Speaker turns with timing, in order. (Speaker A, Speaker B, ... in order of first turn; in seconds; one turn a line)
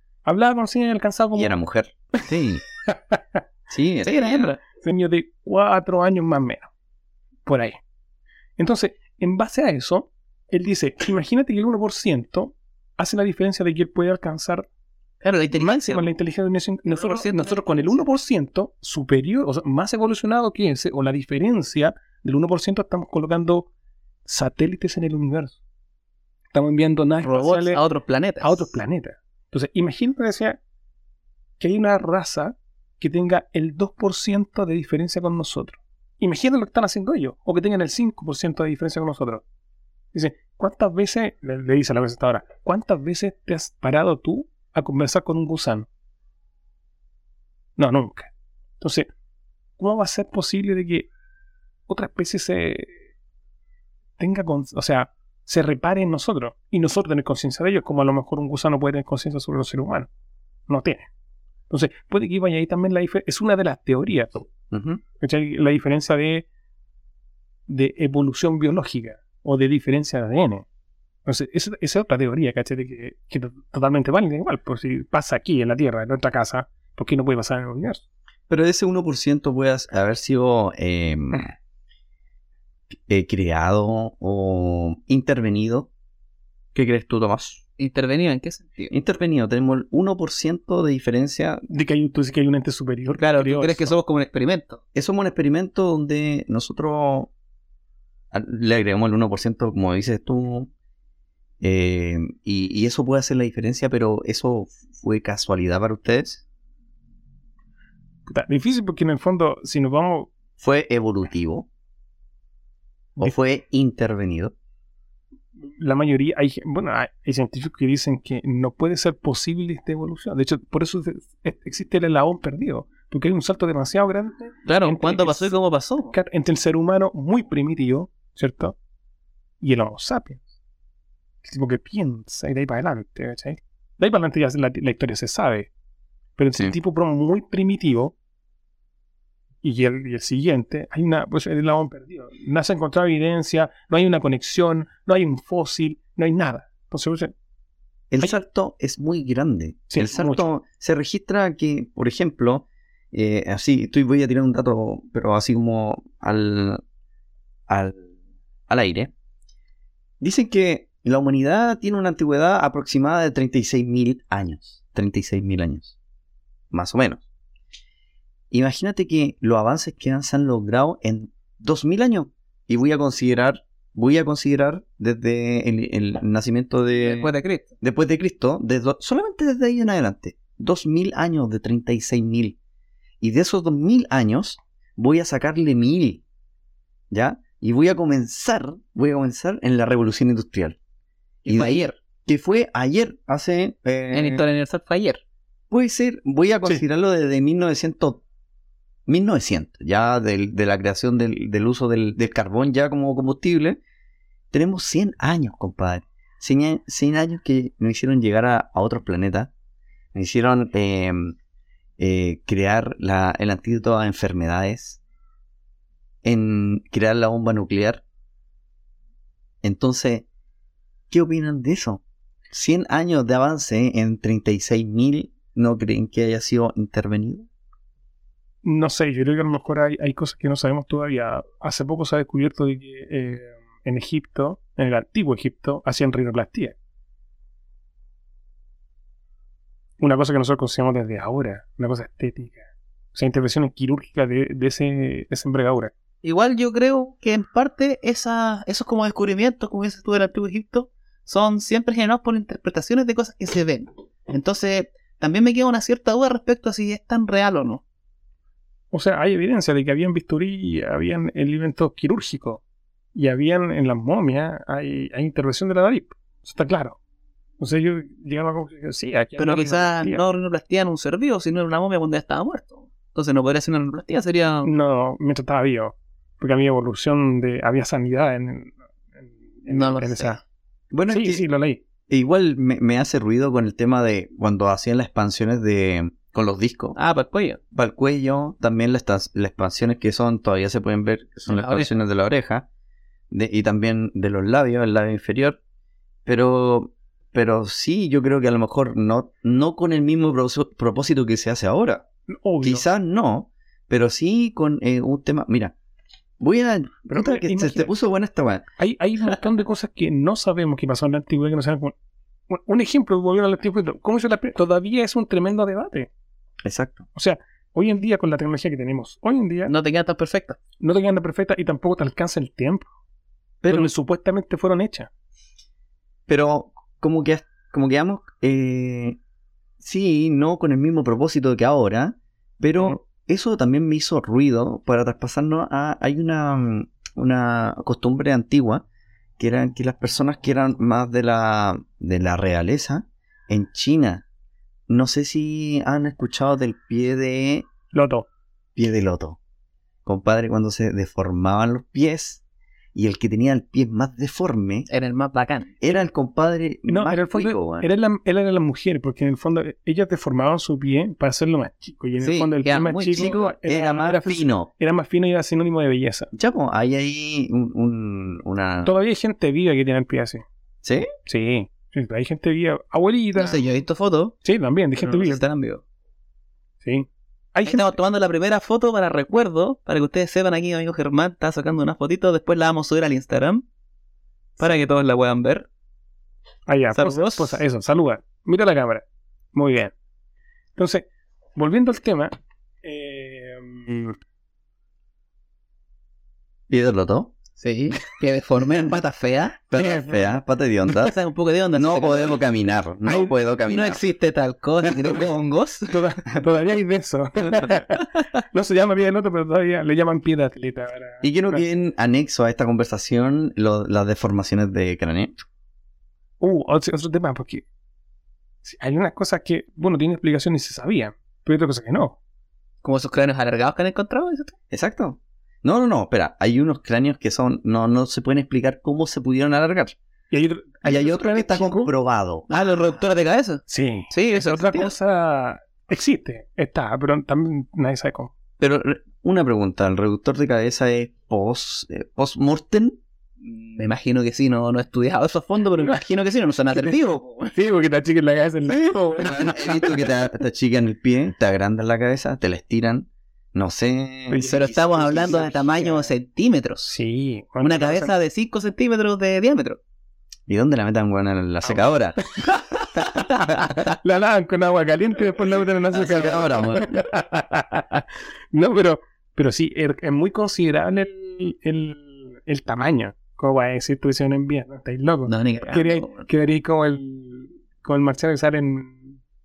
Speaker A: 0.2-1.5
Speaker B: 1.3-2.6
Speaker A: 2.9-3.4
Speaker B: 3.7-4.5
Speaker C: 4.0-4.6
Speaker A: 4.7-6.7
Speaker A: 7.5-7.8
Speaker A: 8.6-14.6
Speaker C: 15.2-16.1
Speaker A: 15.5-23.7
Speaker C: 16.9-18.0
Speaker A: 24.2-25.6
Speaker A: 26.5-27.8
Speaker C: 27.2-28.7
Speaker A: 28.4-30.6
Speaker A: 31.6-39.4
Speaker A: 40.1-45.9
Speaker A: 47.8-48.3
Speaker A: 48.8-49.1
Speaker A: 49.8-51.1
Speaker A: 51.9-53.0
Speaker A: 54.2-60.1
Speaker A: 60.7-61.1
Speaker A: 61.7-64.5
Speaker B: 64.7-65.0
Speaker A: 65.2-66.5
Speaker A: 67.7-70.6
Speaker A: 71.2-78.0
Speaker B: 78.5-81.5
Speaker B: 83.1-85.9
Speaker B: 86.7-87.6
Speaker C: 87.8-88.9
Speaker B: 88.9-91.7
Speaker A: 91.7-93.9
Speaker C: 93.2-94.8
Speaker B: 94.9-97.3
Speaker B: 98.3-100.7
Speaker B: 101.6-106.4
Speaker A: 108.3-110.3
Speaker B: 110.6-111.7
Speaker B: 113.2-114.5
Speaker A: 115.8-125.5
Speaker C: 124.7-126.1
Speaker A: 126.1-128.8
Speaker A: 129.6-130.4
Speaker A: 131.4-135.7
Speaker A: 136.4-138.1
Speaker A: 139.6-147.3
Speaker B: 148.1-156.8
Speaker A: 149.9-150.4
Speaker B: 157.7-158.1
Speaker B: 158.7-159.1
Speaker B: 160.2-165.9
Speaker B: 166.7-167.2
Speaker B: 168.5-182.6
Speaker C: 177.0-177.7
Speaker B: 183.2-186.2
Speaker B: 187.1-190.8
Speaker C: 191.4-191.9
Speaker B: 191.4-194.4
Speaker C: 194.1-195.2
Speaker B: 195.7-198.2
Speaker B: 199.1-203.8
Speaker B: 204.5-209.5
Speaker B: 210.1-211.3
Speaker B: 212.0-215.0
Speaker B: 216.2-218.0
Speaker B: 219.6-220.2
Speaker B: 221.1-227.5
Speaker A: 228.6-236.7
Speaker A: 240.0-242.6
Speaker A: 243.1-245.9
Speaker C: 246.2-257.8
Speaker A: 258.9-262.6
Speaker A: 263.1-267.0
Speaker A: 267.6-270.2
Speaker C: 269.4-274.7
Speaker A: 274.6-280.4
Speaker C: 279.7-280.4
Speaker B: 280.9-281.4
Speaker A: 281.1-281.8
Speaker B: 282.1-286.9
Speaker C: 286.9-287.6
Speaker B: 287.7-292.7
Speaker C: 291.5-291.9
Speaker B: 293.3-295.6
Speaker B: 296.2-302.1
Speaker A: 302.3-302.8
Speaker B: 302.6-305.7
Speaker B: 306.4-308.6
Speaker A: 307.1-307.9
Speaker A: 308.8-311.9
Speaker A: 312.5-316.1
Speaker B: 316.6-317.1
Speaker A: 317.1-319.7
Speaker C: 319.7-320.6
Speaker A: 320.8-322.9
Speaker B: 323.6-323.9
Speaker A: 323.7-325.1
Speaker B: 326.3-329.2
Speaker B: 329.8-338.8
Speaker B: 339.4-344.2
Speaker B: 344.9-347.7
Speaker A: 347.9-348.3
Speaker B: 348.8-349.4
Speaker B: 350.0-352.4
Speaker B: 352.9-354.9
Speaker C: 354.9-355.7
Speaker B: 355.8-357.9
Speaker A: 356.9-366.3
Speaker B: 362.2-364.7
Speaker C: 362.6-363.3
Speaker B: 366.3-368.9
Speaker A: 368.8-370.4
Speaker B: 370.8-371.1
Speaker A: 371.2-373.6
Speaker C: 373.4-374.4
Speaker A: 374.4-375.4
Speaker C: 375.0-375.8
Speaker A: 376.8-377.9
Speaker C: 377.6-383.6
Speaker C: 384.6-385.7
Speaker A: 386.7-389.9
Speaker C: 386.9-387.6
Speaker A: 390.8-392.3
Speaker A: 392.8-394.1
Speaker B: 396.7-397.3
Speaker C: 397.6-399.6
Speaker B: 399.7-401.1
Speaker A: 399.8-400.1
Speaker C: 400.9-402.4
Speaker B: 401.7-404.0
Speaker C: 403.1-405.9
Speaker A: 405.9-411.6
Speaker B: 411.2-415.4
Speaker A: 416.4-417.6
Speaker A: 418.6-422.2
Speaker C: 422.8-424.5
Speaker B: 424.7-429.9
Speaker A: 430.3-431.9
Speaker B: 430.8-432.5
Speaker C: 432.5-434.9
Speaker A: 433.7-438.3
Speaker B: 438.6-443.0
Speaker C: 443.4-447.5
Speaker A: 447.5-450.1
Speaker B: 448.7-455.6
Speaker A: 454.3-455.9
Speaker C: 454.4-457.0
Speaker A: 456.9-458.1
Speaker C: 457.6-459.8
Speaker B: 460.5-462.3
Speaker C: 463.2-463.8
Speaker A: 463.7-479.1
Speaker B: 465.9-466.9
Speaker C: 475.2-476.2